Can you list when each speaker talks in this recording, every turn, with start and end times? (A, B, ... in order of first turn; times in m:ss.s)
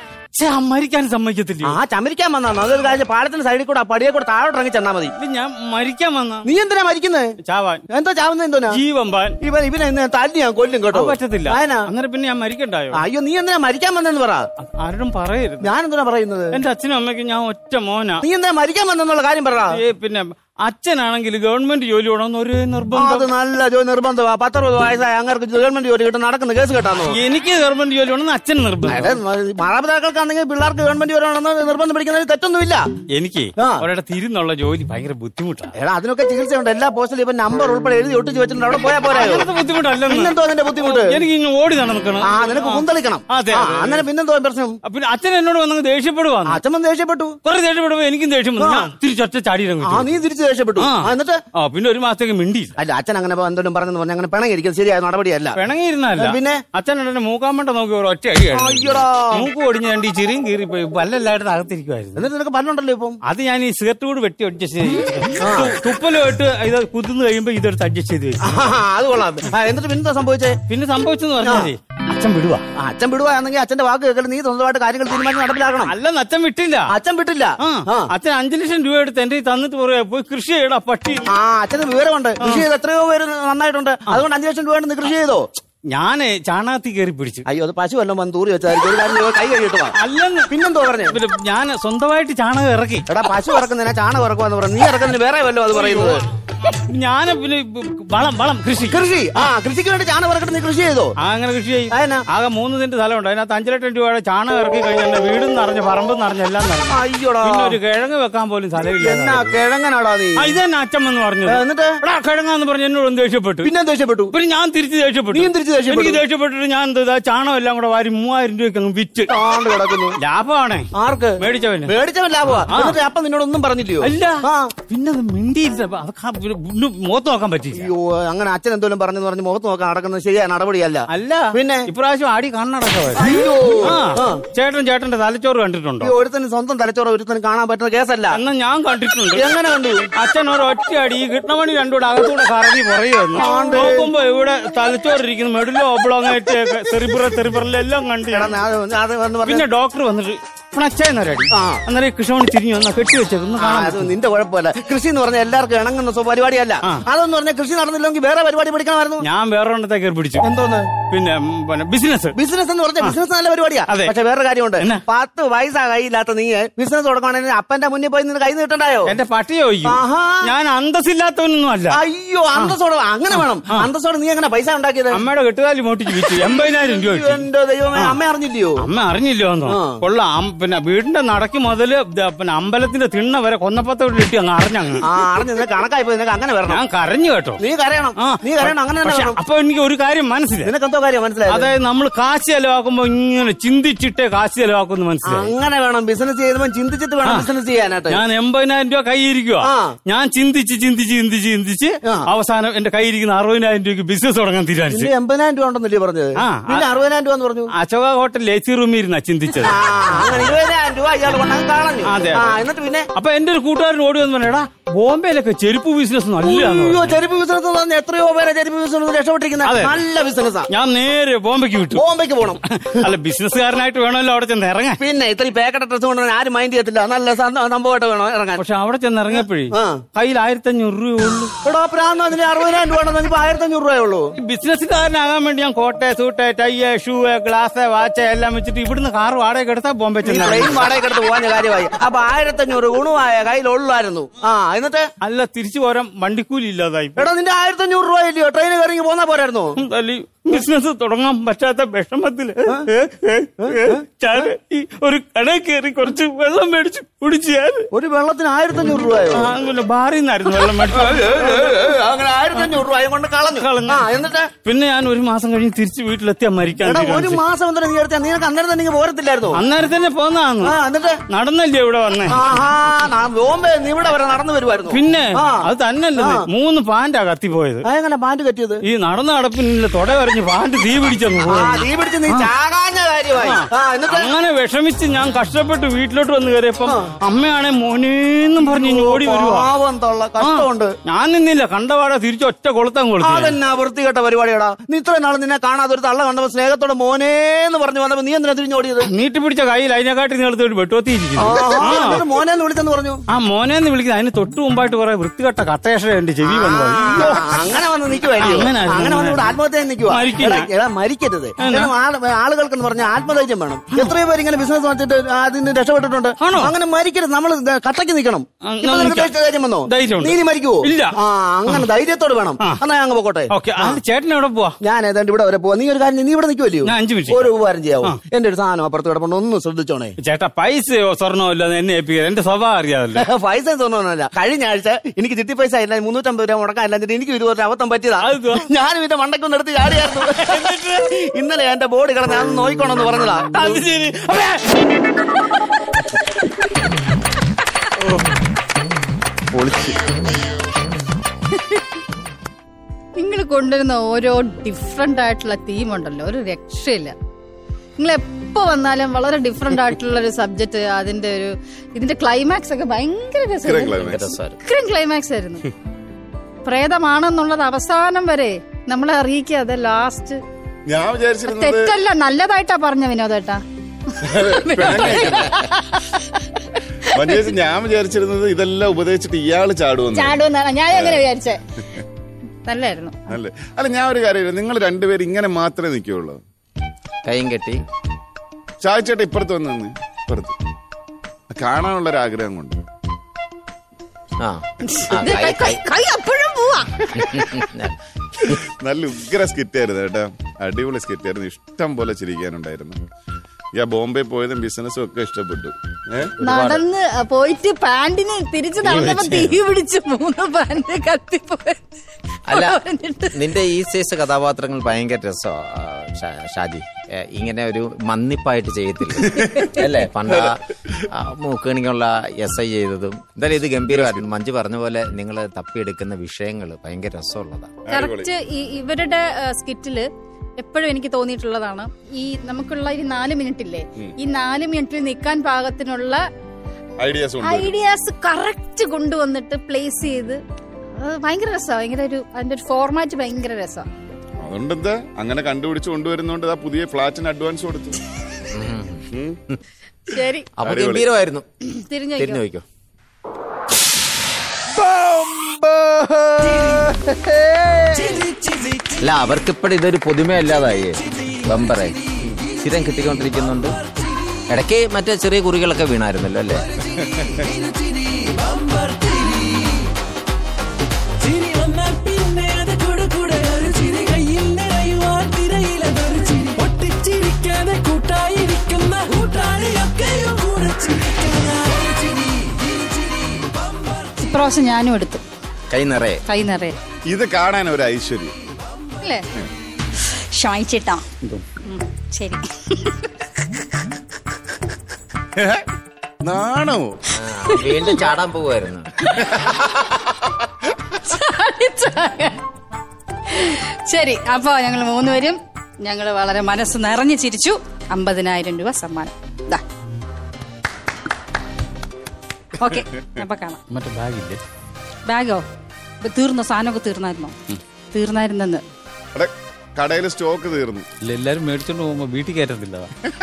0:00.3-0:01.8 A
0:01.6-0:05.1 B
0:05.2-0:06.5 A
0:06.4-0:07.4 B
0:07.4-0:07.8 A
0:07.9-0:08.8 B
0:08.7-0:09.4 A
0:09.4-0:11.9 B
0:10.9-0:13.0 A
0:12.9-0:14.5 B
0:14.6-0:15.7 A
0:15.6-0:16.6 B
0:16.5-0:18.2 A
0:18.2-0:19.8 B
0:19.7-0:23.3 A
0:22.9-0:27.2 B
0:27.1-0:29.2 A
0:28.9-0:32.9 B
0:33.1-0:35.7 A
0:33.6-0:33.8 B
0:35.8-0:39.5 B
0:39.1-0:44.1 A
0:40.1-0:41.2 B
0:42.2-0:44.8 B
0:44.8-0:46.6 A
0:46.4-0:47.4 B
0:47.4-0:50.1 A
0:48.6-0:48.9 B
0:49.8-0:51.4 B
0:50.8-0:52.8 A
0:52.8-0:55.6 B
0:55.6-1:02.2 A
0:56.2-0:56.6 B
0:58.5-0:59.5 B
1:02.2-1:03.2 B
1:03.2-1:08.6 A
1:05.4-1:05.8 B
1:08.4-1:10.6 B
1:10.7-1:12.6 A
1:11.4-1:11.7 B
1:12.8-1:15.9 B
1:15.8-1:16.9 A
1:16.9-1:18.1 B
1:17.6-1:21.3 A
1:21.3-1:25.5 B
1:22.4-1:22.7 A
1:25.9-1:27.4 A
1:27.5-1:29.9 B
1:29.9-1:30.5 A
1:30.5-1:31.2 B
1:31.1-1:33.1 A
1:33.1-1:36.2 B
1:35.7-1:39.1 A
1:38.9-1:41.1 B
1:41.2-1:49.6 A
1:41.9-1:42.2 B
1:46.9-1:47.8 B
1:49.0-1:50.6 B
1:50.4-1:53.7 A
1:51.5-1:51.9 B
1:53.6-1:54.3 B
1:54.3-1:59.4 A
1:55.3-1:56.2 B
1:59.3-2:00.2 B
2:00.2-2:03.0 A
2:01.0-2:04.7 B
2:04.0-2:07.9 A
2:07.7-2:11.9 B
2:11.1-2:16.2 A
2:13.2-2:14.4 B
2:16.0-2:18.4 B
2:18.3-2:19.5 A
2:19.4-2:20.1 B
2:20.2-2:28.6 A
2:23.3-2:24.1 B
2:28.3-2:29.6 B
2:29.4-2:34.1 A
2:31.5-2:31.8 B
2:33.6-2:39.2 B
2:39.2-2:40.4 A
2:40.4-2:40.9 B
2:41.1-2:42.4 A
2:42.4-2:49.1 B
2:43.9-2:44.2 A
2:44.8-2:45.0 A
2:49.1-2:52.0 A
2:49.8-2:50.5 B
2:51.9-2:55.2 B
2:53.3-2:53.9 A
2:55.1-2:58.2 A
2:56.4-2:58.8 B
2:58.8-3:05.0 A
2:59.7-3:00.0 B
3:05.0-3:06.8 B
3:06.7-3:07.6 A
3:07.6-3:09.4 B
3:08.2-3:10.7 A
3:10.6-3:11.7 B
3:11.5-3:15.5 A
3:15.2-3:18.2 B
3:17.2-3:17.5 A
3:18.1-3:25.1 A
3:19.6-3:20.0 B
3:24.9-3:27.7 B
3:26.4-3:26.9 A
3:27.8-3:30.2 A
3:29.6-3:33.1 B
3:32.0-3:32.6 A
3:33.2-3:37.2 A
3:36.4-3:40.7 B
3:39.6-3:40.0 A
3:40.7-3:42.0 A
3:41.9-3:42.6 B
3:42.7-3:45.0 A
3:45.0-3:48.6 B
3:48.6-3:51.5 A
3:49.4-3:50.0 B
3:51.6-3:54.3 B
3:54.4-4:00.9 A
4:00.2-4:05.1 B
4:05.2-4:07.3 A
4:07.2-4:09.8 B
4:09.8-4:17.9 A
4:13.6-4:14.0 B
4:17.9-4:19.5 B
4:19.3-4:21.6 A
4:20.6-4:24.5 B
4:23.5-4:24.1 A
4:24.6-4:27.4 A
4:26.8-4:29.6 B
4:29.5-4:30.8 A
4:30.6-4:31.2 B
4:31.3-4:32.6 A
4:32.3-4:36.5 B
4:34.9-4:37.9 A
4:37.9-4:38.8 B
4:38.8-4:42.5 A
4:41.4-4:44.3 B
4:43.4-4:49.7 A
4:46.8-4:47.1 B
4:48.6-4:50.9 B
4:50.4-4:53.6 A
4:53.2-4:59.1 B
4:59.1-5:02.3 A
5:01.4-5:03.2 B
5:03.3-5:07.7 A
5:06.4-5:24.0 B
5:08.4-5:10.7 A
5:11.6-5:11.9 A
5:16.4-5:16.7 A
5:18.6-5:19.3 A
5:19.9-5:21.2 A
5:23.5-5:24.8 A
5:24.8-5:30.2 B
5:26.8-5:28.2 A
5:30.2-5:33.3 A
5:33.2-5:43.8 B
5:38.2-5:38.7 A
5:40.3-5:41.0 A
5:43.5-5:44.8 A
5:53.2-5:57.1 C
5:58.0-6:05.7 C
6:03.6-6:04.2 D
6:04.0-6:04.6 E
6:06.6-6:10.4 C
6:10.9-6:11.9 D
6:11.5-6:13.6 C
6:14.1-6:16.8 C
6:14.2-6:15.6 D
6:17.1-6:20.4 D
6:20.1-6:21.6 C
6:20.9-6:21.2 D
6:22.7-6:23.2 C
6:23.3-6:26.4 D
6:27.2-6:27.8 E
6:28.8-6:30.6 D
6:31.5-6:32.8 D
6:34.4-6:35.8 E
6:34.8-6:37.7 C
6:37.2-6:38.0 E
6:38.8-6:43.0 D
6:43.7-6:46.3 D
6:46.4-6:46.8 E
6:46.4-6:51.8 C
6:48.8-6:49.6 E
6:52.5-6:52.8 E
6:52.5-6:53.4 C
6:53.3-7:07.8 E
7:03.9-7:04.3 D
7:07.8-7:08.3 D
7:07.9-7:16.2 C
7:17.0-7:17.8 D
7:17.4-7:20.4 C
7:21.0-7:23.9 C
7:24.4-7:28.0 D
7:28.5-7:29.6 E
7:29.1-7:29.4 D
7:30.1-7:30.5 C
7:30.6-7:31.5 E
7:30.6-7:31.1 D
7:31.7-7:32.4 C
7:32.2-7:32.6 E
7:35.1-7:36.8 D
7:38.9-7:43.8 E
7:44.5-7:46.7 E
7:47.0-7:47.5 D
7:48.6-7:49.5 F
7:51.2-8:02.2 F
8:04.2-8:05.2 C
8:05.7-8:06.2 E
8:06.3-8:06.8 C
8:07.1-8:08.3 D
8:09.0-8:09.3 C
8:10.0-8:11.0 C
8:11.6-8:13.1 C
8:15.4-8:15.6 D
8:16.2-8:17.0 D
8:17.1-8:18.9 E
8:17.5-8:18.0 C
8:20.9-8:22.4 C
8:23.3-8:29.6 C
8:32.6-8:33.6 C
8:33.7-8:34.4 A
8:35.1-8:35.4 C
8:36.0-8:37.3 C
8:37.9-8:38.6 C
8:39.2-8:40.9 D
8:41.0-8:42.9 A